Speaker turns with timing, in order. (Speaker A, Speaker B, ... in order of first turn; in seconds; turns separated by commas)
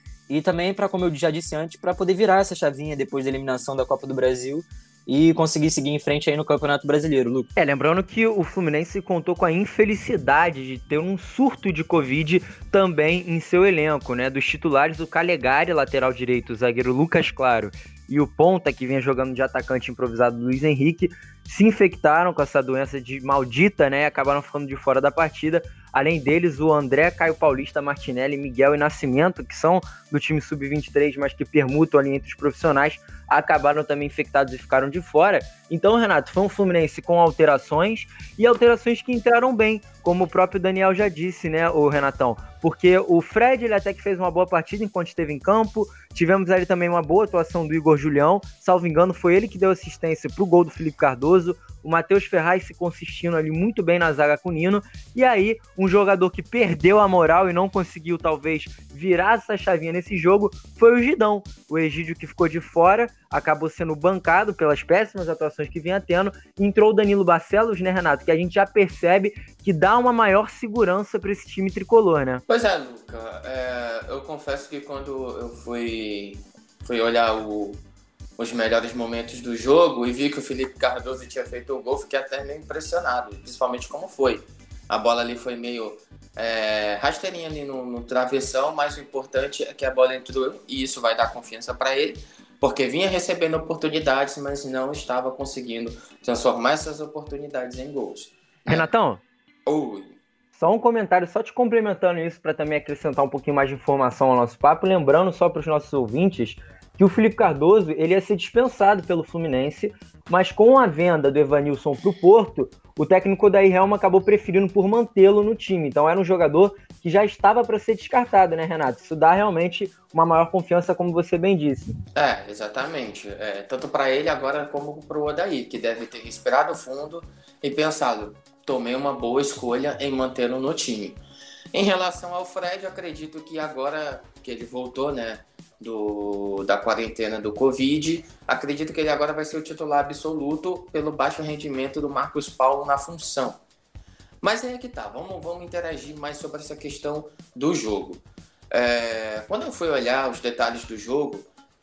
Speaker A: 0.3-7.5, Speaker B: 7.6-72.4, Speaker C: 72.5-77.8, Speaker C: 78.4-98.9, Speaker B: 98.7-99.2, Speaker C: 99.7-100.2, Speaker B: 100.5-121.9, Speaker C: 122.2-131.2, Speaker C: 131.7-143.6, Speaker C: 144.4-151.5